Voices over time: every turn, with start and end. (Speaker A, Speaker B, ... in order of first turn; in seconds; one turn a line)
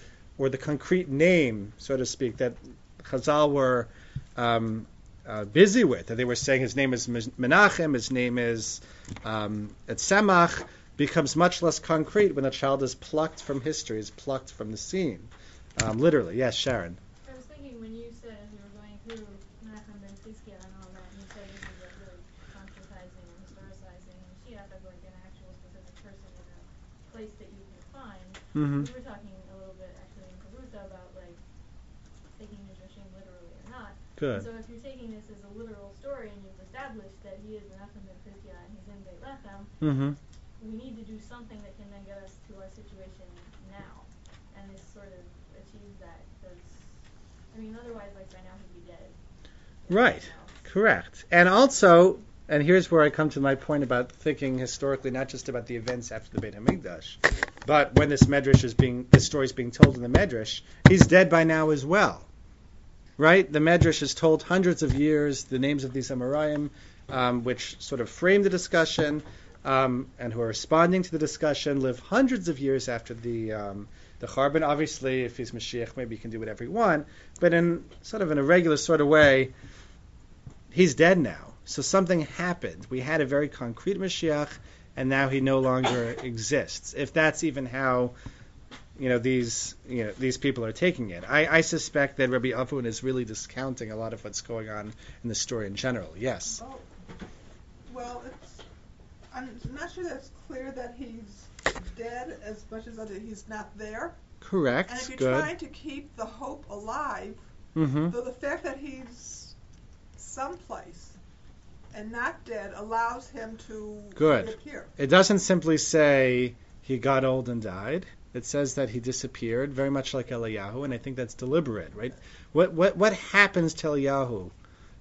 Speaker A: 0.4-17.0
Speaker B: 17.2-31.4
Speaker A: 28.5-28.9
Speaker B: 32.3-39.7
Speaker A: 34.2-34.5
Speaker A: 39.8-40.2
Speaker B: 40.6-47.0
Speaker B: 47.5-49.1
Speaker B: 49.9-50.5
Speaker A: 49.9-62.3
Speaker A: 63.2-79.5
Speaker A: 80.7-88.1
Speaker A: 89.0-96.6
Speaker C: 96.6-96.9
Speaker C: 97.9-98.6
Speaker C: 99.3-104.2
Speaker A: 104.4-105.5
Speaker C: 104.8-107.4
Speaker A: 107.7-108.1
Speaker C: 108.0-109.5
Speaker C: 110.2-111.2
Speaker C: 111.9-114.9
Speaker A: 114.2-124.5